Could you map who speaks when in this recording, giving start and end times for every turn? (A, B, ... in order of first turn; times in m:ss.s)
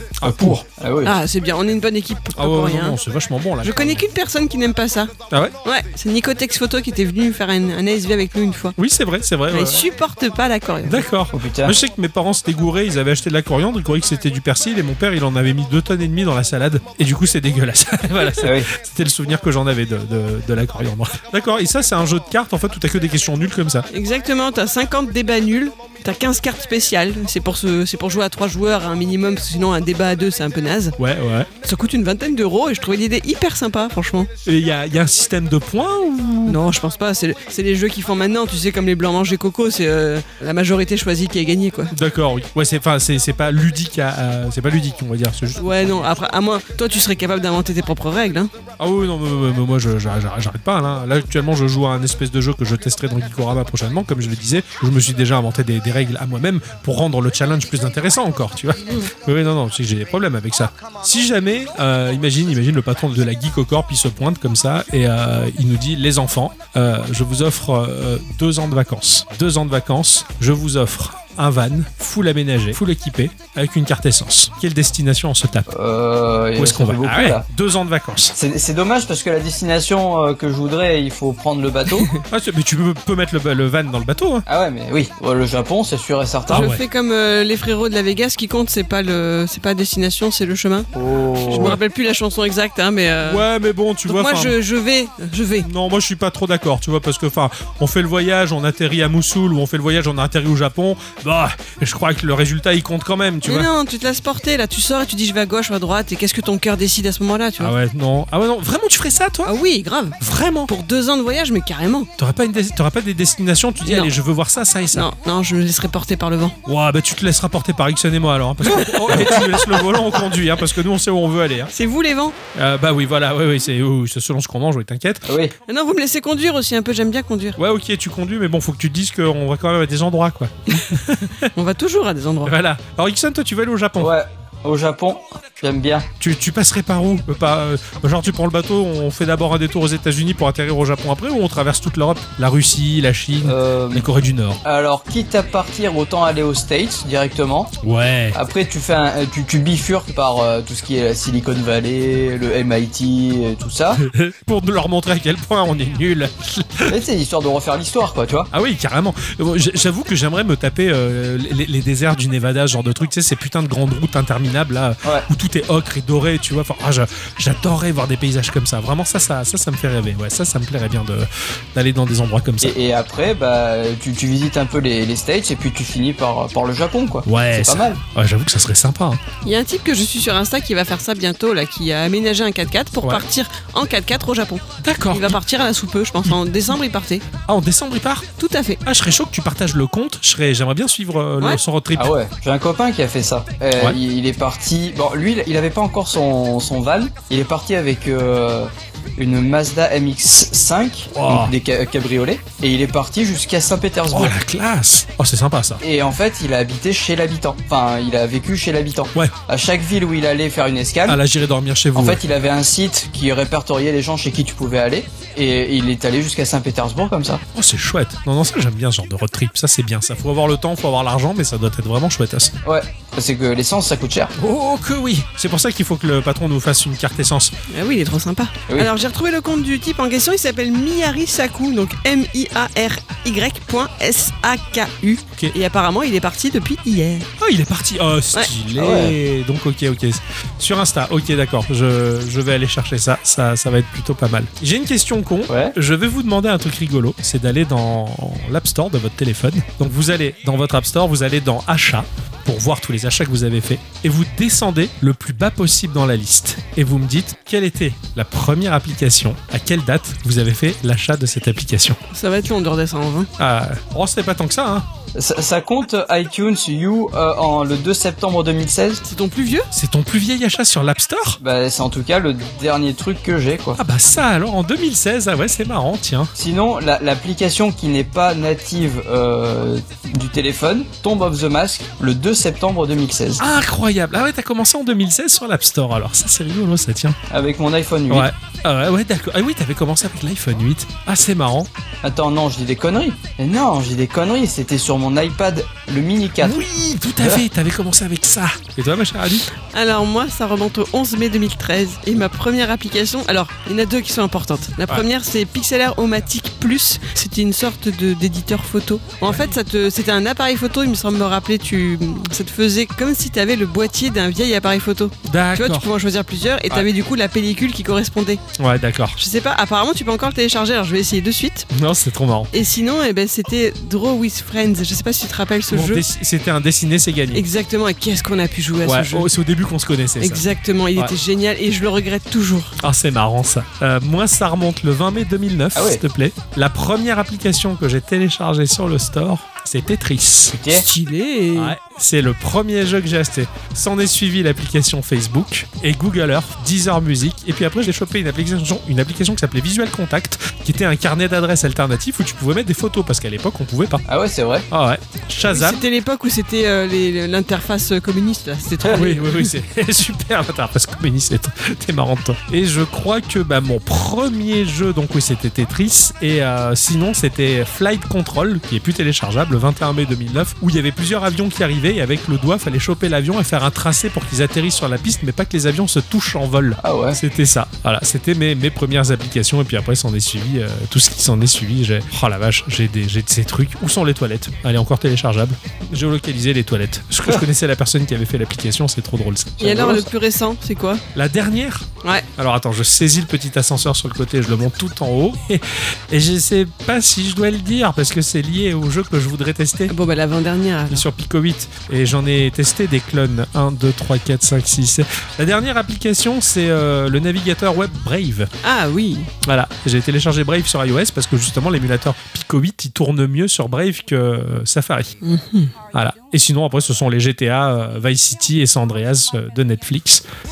0:00.2-0:00.6 A
0:00.2-0:01.2 B
0:01.0-0:03.0 C
0:02.4-0:04.0 A
0:03.6-0:05.1 C
0:05.3-0:05.5 A
0:05.6-0:08.8 C
0:08.8-0:09.9 A
0:09.5-0:11.0 C
0:10.8-0:23.9 A
0:11.3-0:11.8 B
0:18.4-0:18.7 B
0:23.9-0:31.0 C
0:31.0-0:31.5 A
0:31.6-0:34.3 C
0:34.4-0:36.6 A
0:36.4-0:41.9 C
0:41.9-0:46.0 A
0:45.6-0:48.5 C
0:48.8-1:15.7 A
1:15.7-1:17.4 B
1:16.6-1:18.3 A
1:18.4-1:22.1 B
1:22.3-1:24.4 A
1:24.5-1:26.7 B
1:26.5-1:26.8 A
1:26.5-1:30.9 C
1:30.9-1:31.8 B
1:31.4-1:33.4 C
1:31.5-1:31.8 A
1:33.2-1:34.5 A
1:34.1-1:35.7 C
1:35.6-1:43.7 A
1:43.4-1:47.7 C
1:47.6-1:49.5 A
1:49.4-1:50.2 C
1:50.2-1:50.7 A
1:50.7-1:52.1 C
1:52.2-1:55.1 A
1:53.8-1:54.1 C
1:54.9-1:56.6 C
1:56.6-2:01.7 A
2:01.7-2:02.4 C
2:02.5-2:05.3 A
2:05.3-2:05.5 B
2:05.7-2:07.6 C
2:07.6-2:11.5 A
2:11.5-2:12.5 C
2:12.4-2:14.1 A
2:14.0-2:16.1 B
2:16.2-2:24.6 A
2:23.4-2:24.1 B
2:24.6-2:27.7 B
2:27.8-2:28.4 A
2:28.3-2:34.0 B
2:33.9-2:36.9 A
2:36.9-2:38.5 B
2:38.5-2:52.8 A
2:52.6-2:58.0 B
2:57.2-2:59.2 A
2:59.4-3:07.2 C
3:04.8-3:05.4 A
3:07.4-3:08.3 A
3:08.4-3:08.8 C
3:08.8-3:12.1 A
3:12.0-3:24.3 B
3:21.1-3:21.5 A
3:24.1-3:25.8 A
3:25.8-3:31.2 B
3:31.1-3:32.2 A
3:31.9-3:37.4 B
3:37.5-3:42.5 A
3:42.6-3:44.3 B
3:44.4-3:47.5 A
3:47.7-3:57.3 C
3:57.4-4:22.0 A
3:58.8-3:59.1 B
4:05.5-4:05.7 B
4:22.1-4:23.3 C
4:23.4-4:24.9 A
4:25.1-4:29.0 B
4:29.0-4:29.7 C
4:29.7-4:31.4 A
4:31.4-4:33.8 B
4:33.8-4:36.3 A
4:36.4-4:43.4 B
4:43.4-4:47.2 A
4:47.3-4:48.3 B
4:48.1-4:51.7 A
4:52.0-4:56.6 B
4:56.4-4:59.4 A
4:59.6-5:18.4 C
5:09.2-5:09.5 A
5:15.2-5:15.9 A
5:18.6-5:19.2 A
5:19.2-5:21.7 C
5:21.7-5:22.5 A
5:22.5-5:26.0 C
5:25.7-5:27.4 A
5:27.3-5:29.3 C
5:28.8-5:31.1 A
5:30.2-5:32.8 C
5:32.8-5:40.6 A
5:35.7-5:36.0 B
5:40.5-5:40.8 B
5:40.7-5:41.8 C
5:41.5-5:54.0 A
5:54.1-5:54.7 B
5:54.7-5:55.8 A
5:55.5-5:59.5 C
5:58.9-6:29.9 A
6:16.8-6:17.2 B
6:29.6-6:30.1 B
6:29.6-6:31.0 C
6:31.1-6:39.9 A
6:39.9-6:41.0 C
6:40.9-6:48.5 A
6:48.6-6:49.3 C
6:49.4-6:55.2 A
6:55.2-6:55.7 C
6:55.9-7:00.2 A